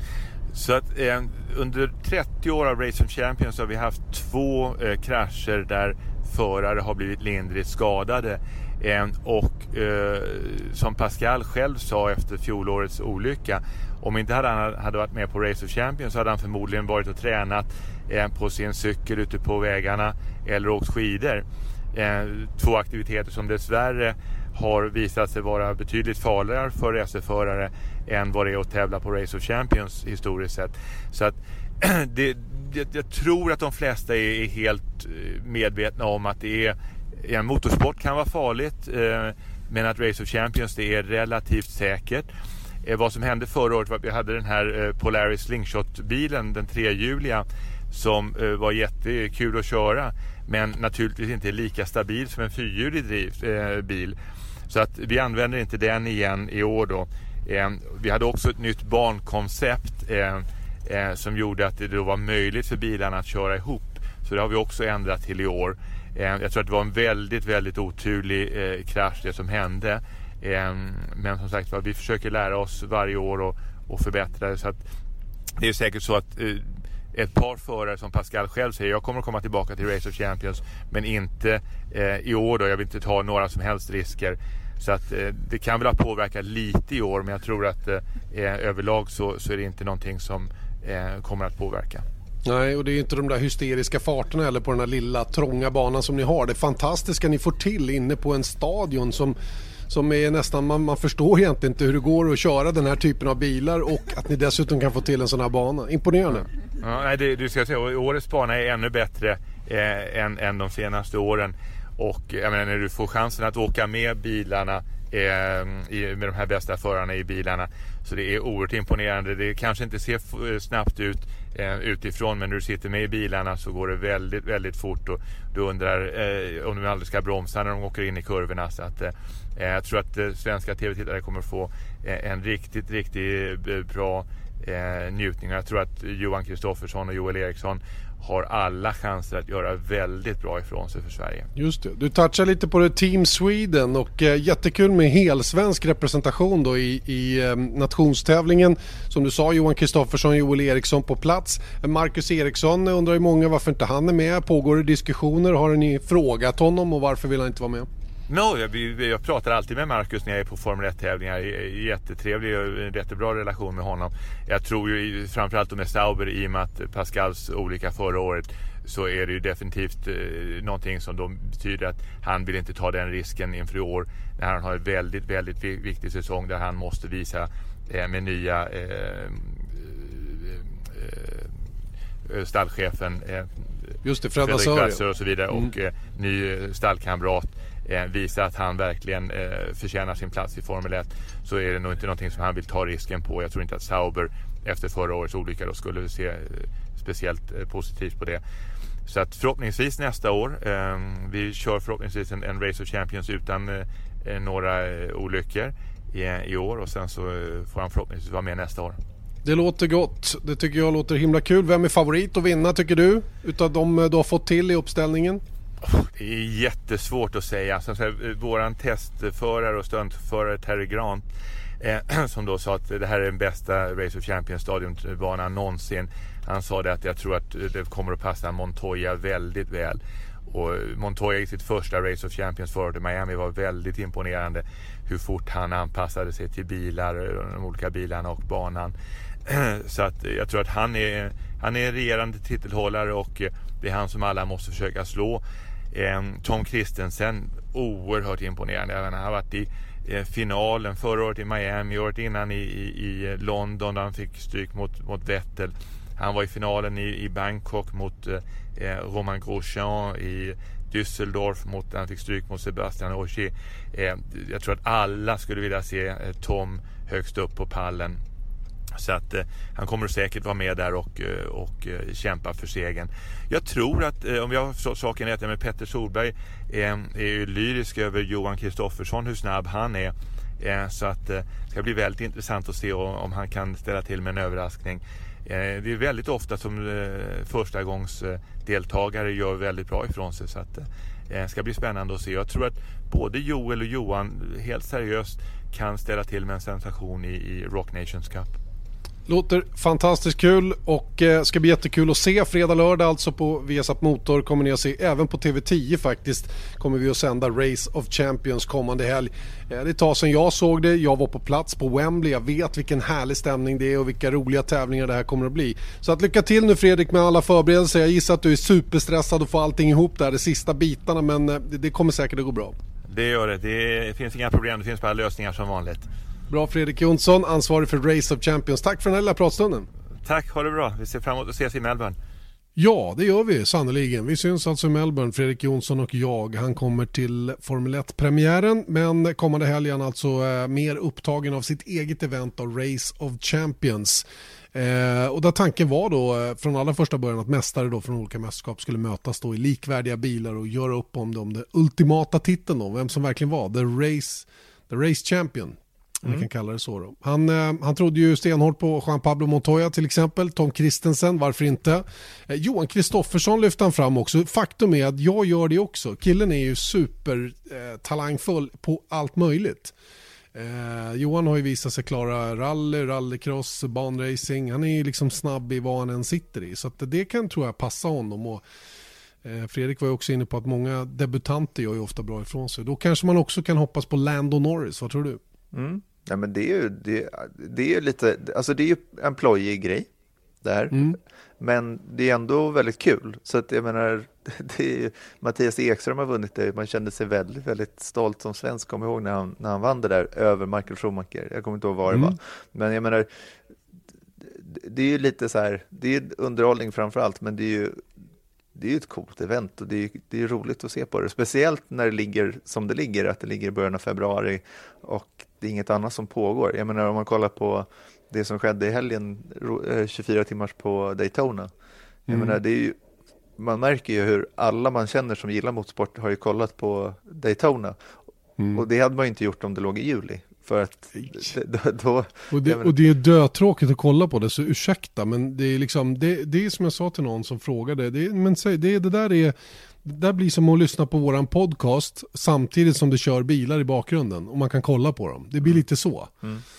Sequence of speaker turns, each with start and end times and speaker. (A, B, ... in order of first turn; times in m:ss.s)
0:00.5-0:42.3 A
0:42.8-0:54.2 A
0:54.7-1:14.8 A
1:15.6-1:32.0 A
1:32.4-1:46.5 B
1:46.8-2:21.5 A
2:21.6-2:37.9 B
2:38.3-3:01.6 A
3:02.2-3:03.7 A
3:04.0-3:05.0 B
3:04.4-3:18.4 A
3:19.0-3:29.0 A
3:29.4-3:35.4 B
3:35.8-3:41.2 A
3:41.8-3:58.9 A
3:59.4-4:28.2 A
4:28.9-4:58.5 A
4:59.3-5:22.8 B
5:23.1-5:26.1 A
5:26.5-5:29.9 B
5:30.2-5:32.2 A
5:32.8-5:44.2 B
5:44.7-6:09.9 B
6:10.5-6:18.6 B
6:19.4-6:25.4 B
6:25.7-6:30.1 C
6:30.6-6:43.3 C
6:30.9-6:31.2 B
6:42.1-6:42.4 B
6:44.4-6:48.0 C
6:48.7-7:01.7 C
7:02.3-7:02.6 B
7:02.3-7:03.0 C
7:03.6-7:08.0 C
7:08.6-7:08.8 B
7:08.7-7:13.0 C
7:12.5-7:26.3 B